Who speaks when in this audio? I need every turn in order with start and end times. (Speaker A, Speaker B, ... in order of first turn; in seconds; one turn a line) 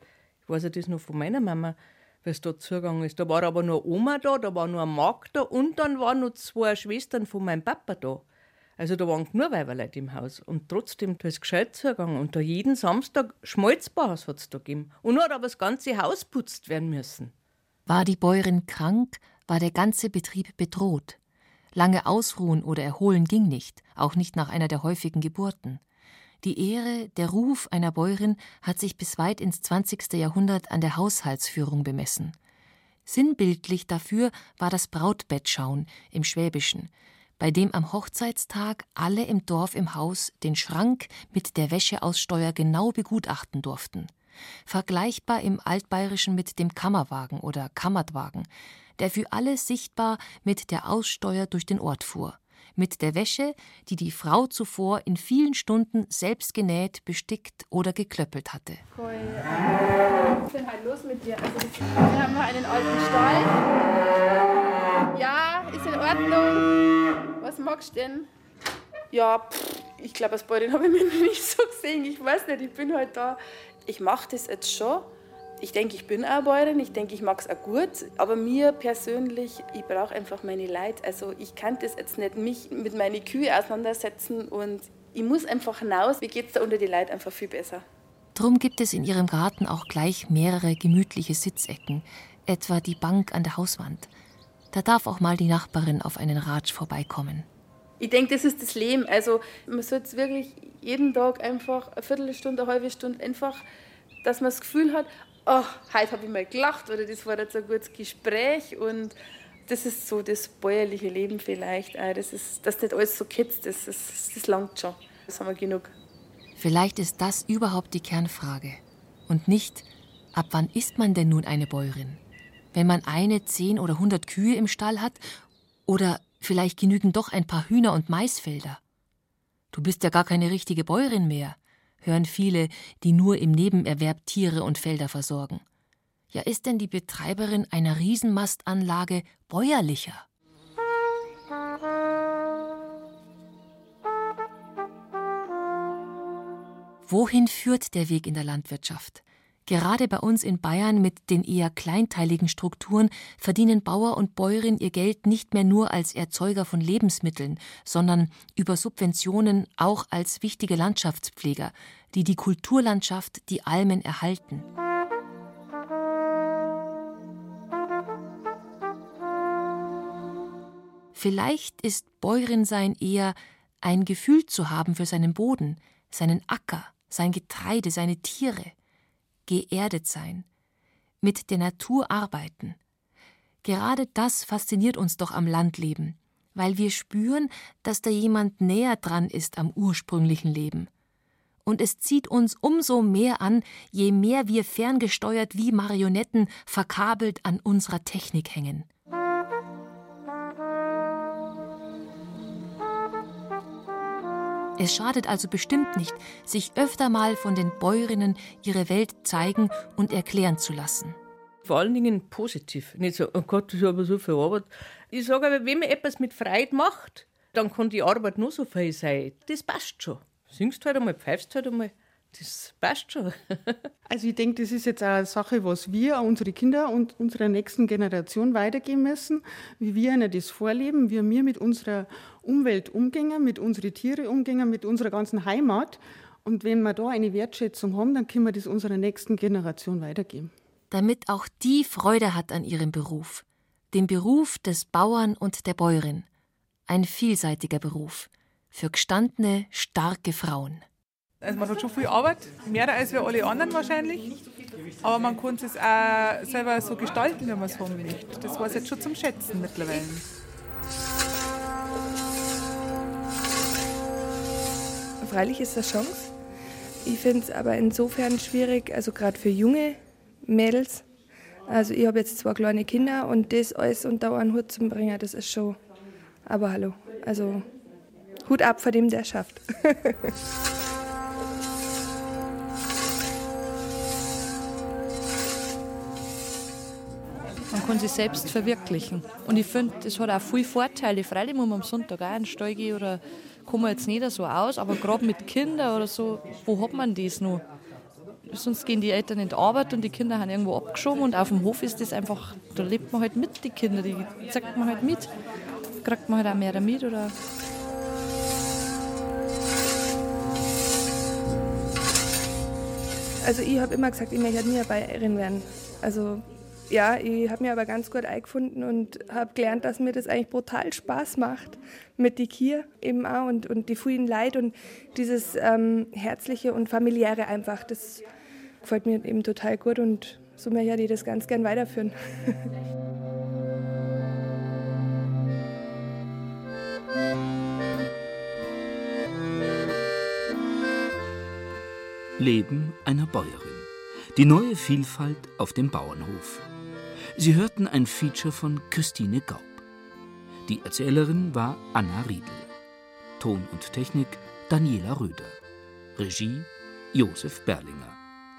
Speaker A: 0.5-8.2
Speaker A: 8.8-17.3
Speaker B: 17.9-21.2
Speaker B: 21.7-25.8
Speaker B: 26.4-32.4
Speaker B: 33.0-44.1
Speaker B: 44.6-58.8
Speaker C: 58.9-63.7
Speaker C: 65.1-66.7
Speaker C: 67.4-68.3
Speaker C: 69.1-75.1
Speaker C: 75.6-87.8
Speaker B: 88.3-94.1
Speaker B: 94.7-97.5
Speaker C: 98.0-103.6
Speaker C: 104.2-109.1
Speaker C: 109.7-115.9
Speaker B: 116.6-122.2
Speaker B: 122.7-125.2
Speaker B: 125.9-128.8
Speaker B: 129.7-135.6
Speaker B: 136.3-140.2
Speaker B: 147.1-164.7
Speaker B: 171.1-178.7
Speaker B: 179.5-180.4
Speaker B: 181.2-182.8
Speaker B: 183.6-190.9
Speaker B: 191.6-198.9
Speaker B: 204.8-211.2
Speaker A: 211.6-223.8
Speaker D: 224.1-240.5
Speaker B: 240.9-246.3
Speaker B: 246.9-250.8
Speaker E: 251.4-254.3
Speaker E: 255.0-260.2
Speaker F: 265.2-266.3
Speaker F: 267.0-271.0
Speaker F: 271.7-275.8
Speaker F: 276.5-277.6
Speaker F: 278.5-280.1
Speaker G: 287.7-297.6
Speaker G: 298.5-305.3
Speaker G: 306.0-307.3
Speaker F: 313.4-328.2
Speaker F: 328.8-332.1
Speaker H: 342.4-346.7
Speaker H: 347.4-349.8
Speaker H: 350.6-352.7
Speaker H: 353.4-355.6
Speaker H: 356.1-358.2